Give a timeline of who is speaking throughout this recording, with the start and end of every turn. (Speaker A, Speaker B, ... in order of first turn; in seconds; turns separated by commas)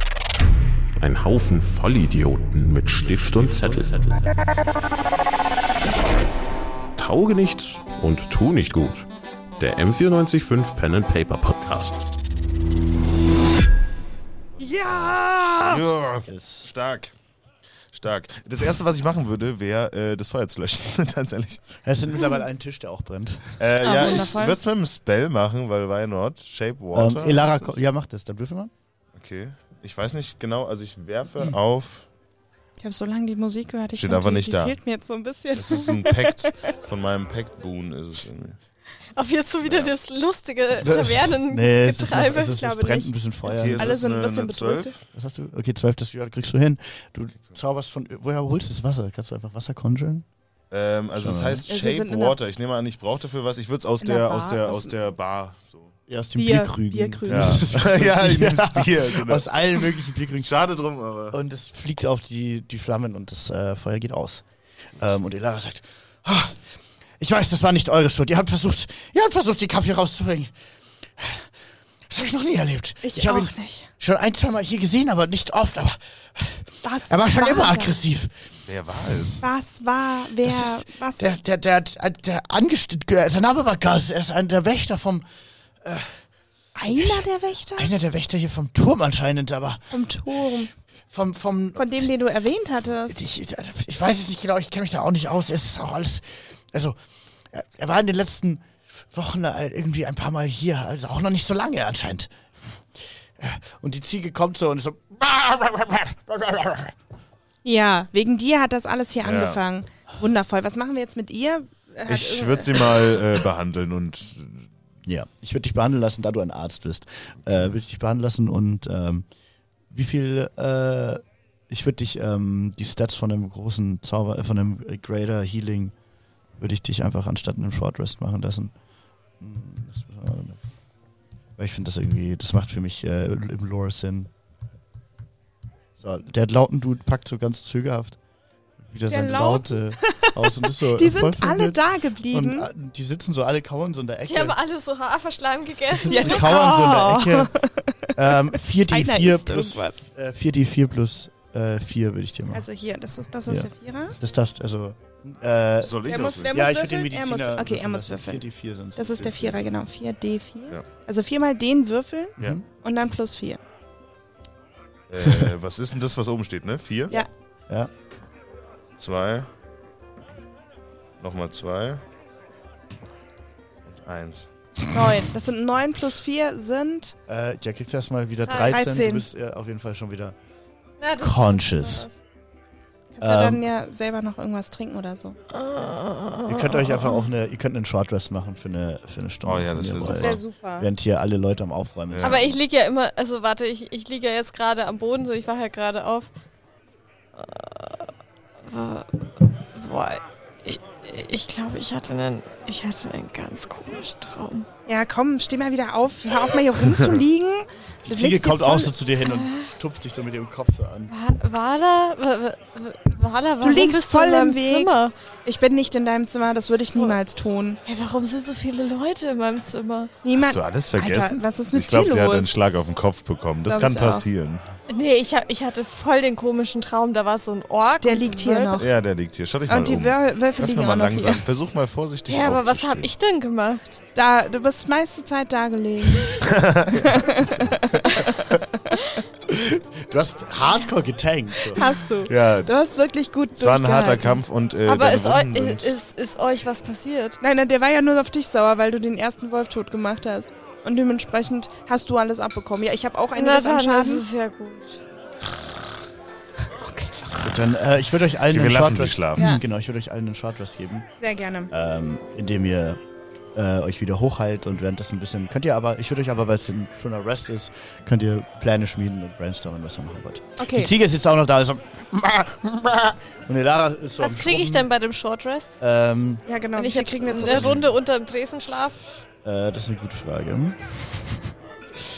Speaker A: 1.0-4.5, Speaker A: 7.0-9.1, Speaker A: 9.6-12.0, Speaker B: 14.6-15.8, Speaker C: 15.7-17.1, Speaker D: 16.3-16.7, Speaker C: 17.9-21.6, Speaker D: 21.8-23.6, Speaker C: 23.6-27.8, Speaker B: 23.8-24.6, Speaker D: 26.9-28.7, Speaker C: 29.2-32.1, Speaker B: 32.8-36.5, Speaker C: 33.9-34.8, Speaker C: 35.5-38.6, Speaker E: 39.2-42.5, Speaker C: 39.6-39.9, Speaker D: 40.8-44.0, Speaker B: 42.5-43.1, Speaker C: 43.5-45.0, Speaker B: 43.8-45.0, Speaker D: 45.1-50.2, Speaker C: 50.7-56.0, Speaker D: 51.2-51.7, Speaker B: 51.7-52.4, Speaker B: 54.0-54.9, Speaker D: 56.1-60.5, Speaker B: 56.4-57.7, Speaker C: 57.3-59.5, Speaker C: 60.4-61.4, Speaker D: 61.3-64.4, Speaker D: 65.0-66.6, Speaker D: 67.2-70.5, Speaker D: 71.2-71.5, Speaker D: 72.1-78.3, Speaker B: 73.0-73.9, Speaker B: 76.8-78.0, Speaker C: 78.7-79.4, Speaker B: 79.4-81.3, Speaker D: 80.4-85.2, Speaker D: 85.8-86.2, Speaker B: 86.8-87.9, Speaker D: 87.0-87.2, Speaker D: 87.8-90.0, Speaker B: 89.9-90.7, Speaker D: 91.1-92.1, Speaker B: 91.8-93.2, Speaker D: 93.1-97.0, Speaker D: 97.5-102.3, Speaker D: 103.4-107.0, Speaker B: 107.6-112.9, Speaker C: 109.2-109.6, Speaker C: 112.0-114.7, Speaker D: 115.1-119.3, Speaker D: 119.9-125.9, Speaker D: 126.6-128.7, Speaker D: 129.4-130.6, Speaker D: 131.6-134.3, Speaker D: 136.0-138.2, Speaker D: 138.9-144.6, Speaker B: 139.1-142.7, Speaker E: 144.2-146.5, Speaker D: 145.9-147.5, Speaker B: 146.1-147.9, Speaker D: 148.2-152.7, Speaker B: 148.9-150.0, Speaker B: 152.5-154.2, Speaker D: 153.5-159.6, Speaker C: 155.8-156.6, Speaker B: 156.1-158.4, Speaker B: 159.0-163.6, Speaker C: 165.1-167.2, Speaker D: 165.2-165.5, Speaker D: 167.1-167.9, Speaker C: 169.0-169.5, Speaker C: 171.2-172.0, Speaker C: 173.9-174.5, Speaker B: 174.9-177.2, Speaker D: 177.3-180.3, Speaker E: 178.4-178.8, Speaker B: 178.7-179.2, Speaker E: 181.0-182.2, Speaker D: 181.2-182.1, Speaker B: 183.2-185.4, Speaker D: 183.2-183.7, Speaker E: 185.5-187.2, Speaker D: 186.5-192.6, Speaker C: 189.4-190.4, Speaker B: 190.1-190.9, Speaker C: 192.1-192.4, Speaker E: 192.2-196.3, Speaker E: 197.4-198.1, Speaker E: 198.7-204.7, Speaker B: 204.9-208.9, Speaker D: 208.0-211.1, Speaker E: 209.2-209.7, Speaker E: 211.1-215.1, Speaker B: 213.6-214.9, Speaker B: 215.4-217.8, Speaker E: 217.8-220.1, Speaker B: 220.2-222.5, Speaker C: 220.4-224.6, Speaker B: 223.7-224.2, Speaker E: 224.9-228.8, Speaker B: 228.0-228.9, Speaker C: 228.8-233.1, Speaker B: 229.7-231.4, Speaker E: 232.3-234.0, Speaker B: 234.2-239.0, Speaker C: 236.4-238.2, Speaker D: 239.5-241.8, Speaker B: 241.7-244.4, Speaker C: 242.2-242.7, Speaker C: 243.6-245.9, Speaker E: 244.9-247.4, Speaker B: 247.4-254.2, Speaker E: 253.3-255.0, Speaker B: 256.8-257.5, Speaker D: 257.4-261.1, Speaker C: 258.5-259.5, Speaker B: 259.4-259.6, Speaker B: 261.2-261.7, Speaker D: 261.7-263.0, Speaker D: 263.5-274.9, Speaker B: 270.6-270.9, Speaker E: 274.2-275.8, Speaker D: 275.8-276.4, Speaker B: 276.5-277.8, Speaker E: 276.8-279.0, Speaker D: 277.3-277.9, Speaker D: 279.4-281.5